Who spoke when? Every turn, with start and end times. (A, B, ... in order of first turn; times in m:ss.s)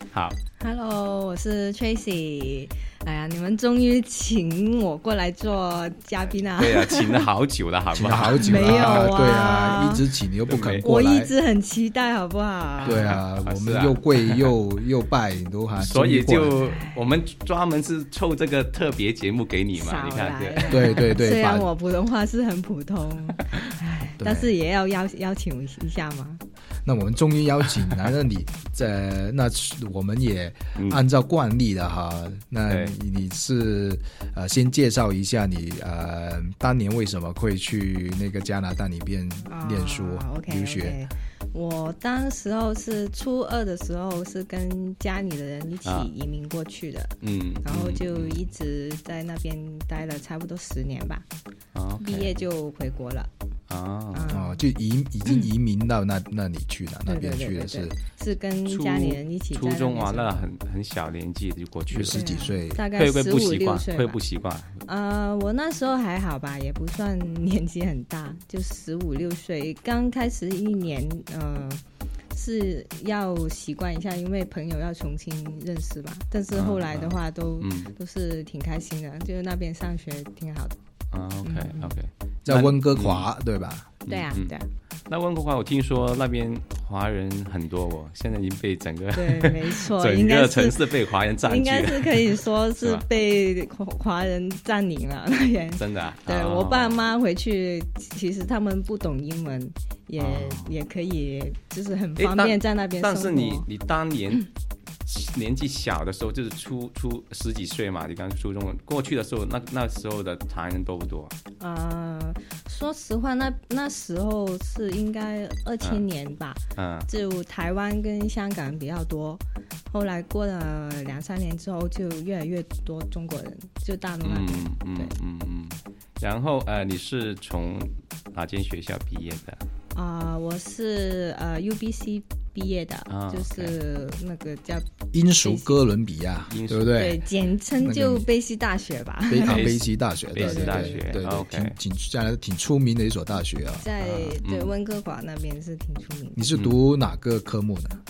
0:00.6-0:07.3 A
0:06.4-0:09.2 B
0:07.9-0:11.3 C
0:08.4-0:10.0 A
0:10.5-0:10.9 B
0:10.8-0:13.2 A
0:12.8-0:14.5 B
0:12.8-0:16.6 C
0:15.8-0:21.1 B
0:19.8-0:26.4 A
0:20.7-0:21.7 C
0:24.2-0:24.5 C
0:26.8-0:41.0 C
0:30.8-0:31.0 B
0:32.7-0:32.9 B
0:39.5-0:51.3 A
0:45.8-0:46.1 B
0:47.2-0:48.4 B
0:51.7-0:52.4 B
0:52.0-0:53.3 A
0:53.7-0:54.3 B
0:54.1-0:54.6 A
0:54.3-0:58.0 C
0:57.1-1:00.5 A
0:58.6-1:02.2 B
1:01.9-1:02.8 C
1:02.1-1:04.2 A
1:02.9-1:04.8 B
1:04.8-1:11.8 A
1:12.3-1:20.8 A
1:16.5-1:17.9 B
1:21.1-1:23.3 B
1:21.4-1:21.9 A
1:22.4-1:24.0 C
1:24.1-1:24.6 B
1:24.1-1:24.7 A
1:25.1-1:33.0 B
1:29.2-1:43.7 A
1:35.8-1:37.1 B
1:40.2-1:40.8 B
1:42.2-1:44.5 B
1:45.1-1:51.3 B
1:51.6-2:05.1 A
1:56.8-1:57.1 B
2:04.2-2:09.6 B
2:09.9-2:14.9 A
2:13.1-2:13.8 B
2:15.1-2:17.2 C
2:15.4-2:15.7 A
2:16.5-2:17.0 B
2:16.9-2:19.8 A
2:17.8-2:18.3 C
2:19.3-2:23.9 C
2:19.4-2:21.8 B
2:20.4-2:21.2 A
2:23.8-2:26.5 A
2:24.0-2:24.7 B
2:26.4-2:28.0 C